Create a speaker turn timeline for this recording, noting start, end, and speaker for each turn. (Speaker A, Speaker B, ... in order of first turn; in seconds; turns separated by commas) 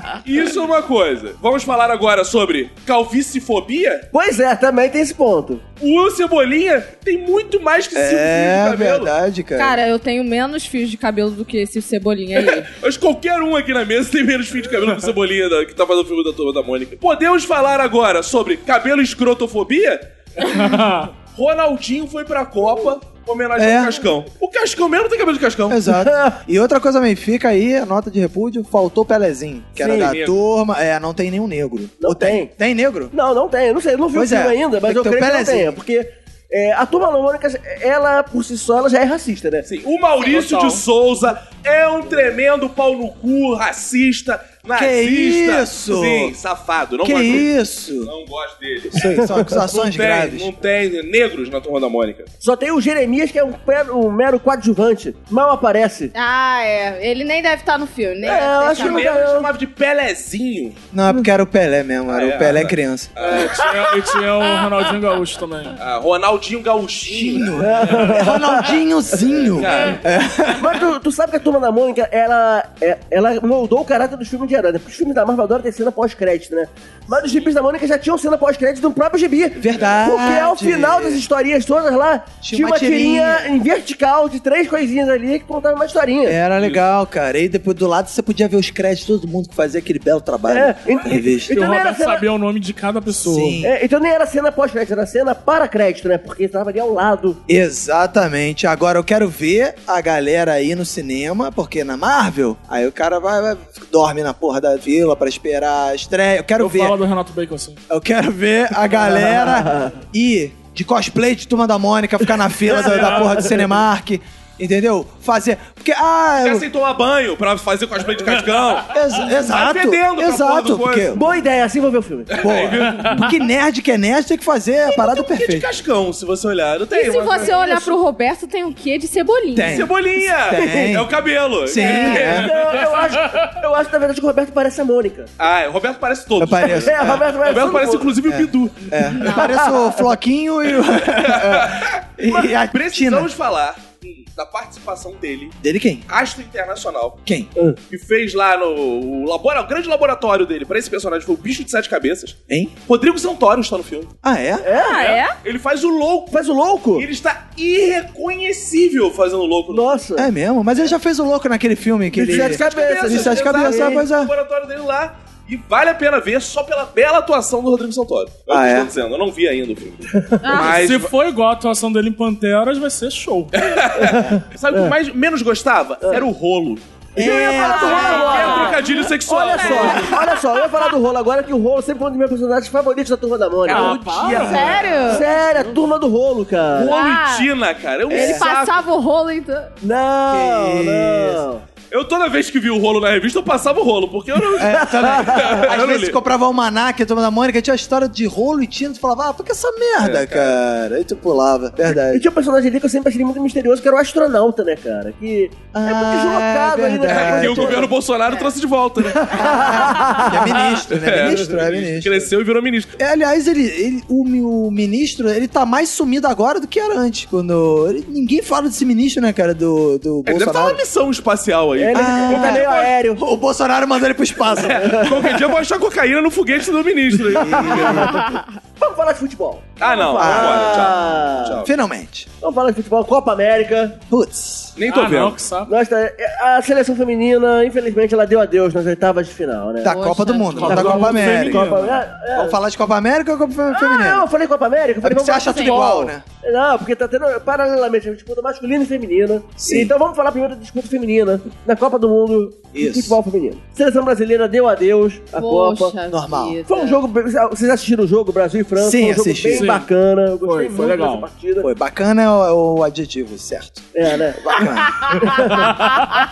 Speaker A: 0.2-4.1, Speaker B: 4.1-5.6, Speaker A: 5.8-9.1, Speaker C: 8.0-9.8, Speaker D: 9.6-12.7, Speaker A: 12.4-20.7, Speaker E: 20.4-21.1, Speaker A: 21.3-25.9, Speaker C: 23.6-24.0, Speaker C: 25.7-33.1, Speaker B: 25.9-26.3, Speaker B: 29.8-30.2, Speaker A: 29.9-30.4, Speaker B: 32.0-32.5, Speaker B: 33.1-39.7, Speaker C: 34.1-35.8, Speaker A: 39.6-52.3, Speaker C: 44.7-46.4, Speaker C: 47.0-48.1, Speaker C: 48.9-50.5, Speaker B: 49.1-49.5, Speaker B: 52.4-56.1, Speaker D: 56.1-59.1, Speaker B: 58.2-59.5, Speaker A: 58.8-60.8, Speaker C: 60.9-63.1, Speaker A: 62.1-64.0, Speaker E: 63.2-65.8, Speaker A: 65.8-68.2, Speaker C: 67.1-70.9, Speaker B: 67.6-69.6, Speaker A: 69.5-70.0, Speaker B: 70.6-86.4, Speaker C: 79.6-81.2, Speaker C: 82.4-83.5, Speaker C: 86.2-91.6, Speaker B: 90.5-92.3, Speaker E: 91.5-93.6, Speaker C: 93.1-93.7, Speaker B: 93.6-97.4, Speaker C: 97.5-107.0, Speaker E: 106.6-107.8, Speaker C: 107.9-116.7, Speaker B: 108.9-110.0, Speaker B: 112.7-113.6, Speaker E: 112.9-113.2, Speaker A: 116.4-121.4, Speaker C: 118.9-121.2, Speaker B: 121.1-122.4, Speaker A: 122.3-123.2, Speaker C: 122.4-125.7, Speaker A: 124.9-127.5, Speaker D: 126.9-129.9, Speaker B: 127.3-128.0, Speaker C: 129.5-131.1, Speaker A: 129.6-132.8, Speaker C: 131.7-132.5, Speaker D: 131.8-132.2, Speaker B: 132.0-135.3, Speaker A: 135.4-139.1, Speaker C: 136.4-137.3, Speaker B: 136.7-138.2, Speaker C: 138.2-143.3, Speaker D: 139.2-139.5, Speaker B: 139.2-140.0, Speaker A: 140.9-145.6, Speaker C: 145.6-146.1, Speaker A: 146.1-147.2, Speaker A: 147.9-154.1, Speaker C: 154.2-154.7, Speaker B: 154.6-155.1, Speaker D: 154.7-155.4, Speaker A: 155.4-156.4, Speaker B: 156.3-157.1, Speaker A: 156.9-160.0, Speaker B: 159.7-160.3, Speaker C: 160.2-164.3, Speaker B: 162.1-164.0, Speaker A: 162.2-171.1, Speaker C: 168.5-168.9, Speaker D: 170.4-170.8, Speaker E: 170.5-173.7, Speaker A: 173.5-176.8, Speaker B: 173.9-174.9, Speaker B: 177.2-184.0, Speaker C: 177.2-178.6, Speaker D: 177.2-178.9, Speaker A: 177.7-180.3, Speaker D: 179.5-180.4, Speaker E: 183.7-184.6, Speaker A: 183.7-184.8, Speaker C: 183.8-185.3, Speaker D: 184.2-185.3, Speaker B: 185.1-186.9, Speaker A: 186.7-188.8, Speaker D: 186.8-187.5, Speaker D: 188.1-189.7, Speaker C: 188.1-188.4, Speaker B: 189.8-191.6, Speaker C: 190.3-191.4, Speaker A: 191.9-196.2, Speaker B: 194.5-195.6, Speaker C: 194.6-202.2, Speaker A: 200.0-200.6, Speaker B: 201.9-207.9, Speaker C: 205.7-207.9, Speaker A: 207.1-209.8, Speaker B: 209.1-210.4, Speaker C: 209.4-212.3, Speaker A: 210.6-213.0, Speaker C: 213.0-220.8, Speaker A: 220.3-222.8, Speaker B: 221.8-223.2, Speaker C: 221.9-225.2, Speaker A: 224.5-228.2, Speaker B: 224.6-225.4, Speaker C: 227.3-228.3, Speaker B: 227.3-228.3, Speaker B: 228.8-231.6, Speaker A: 229.8-231.7, Speaker C: 230.2-230.9, Speaker C: 231.6-232.3, Speaker B: 232.4-234.0, Speaker C: 234.1-234.7, Speaker A: 234.8-235.4, Speaker E: 234.9-235.7, Speaker B: 235.7-239.9, Speaker C: 239.8-241.7, Speaker D: 239.8-241.0, Speaker E: 240.6-242.0, Speaker B: 240.7-242.6, Speaker C: 242.3-244.3, Speaker B: 243.7-255.9, Speaker C: 245.0-246.2, Speaker D: 245.4-246.1, Speaker C: 249.6-249.9, Speaker C: 252.7-253.2, Speaker D: 255.3-257.0, Speaker C: 256.1-256.6, Speaker B: 256.7-261.7, Speaker C: 258.8-259.7, Speaker E: 259.5-259.9, Speaker E: 260.4-261.3, Speaker C: 261.6-265.5, Speaker B: 263.9-266.1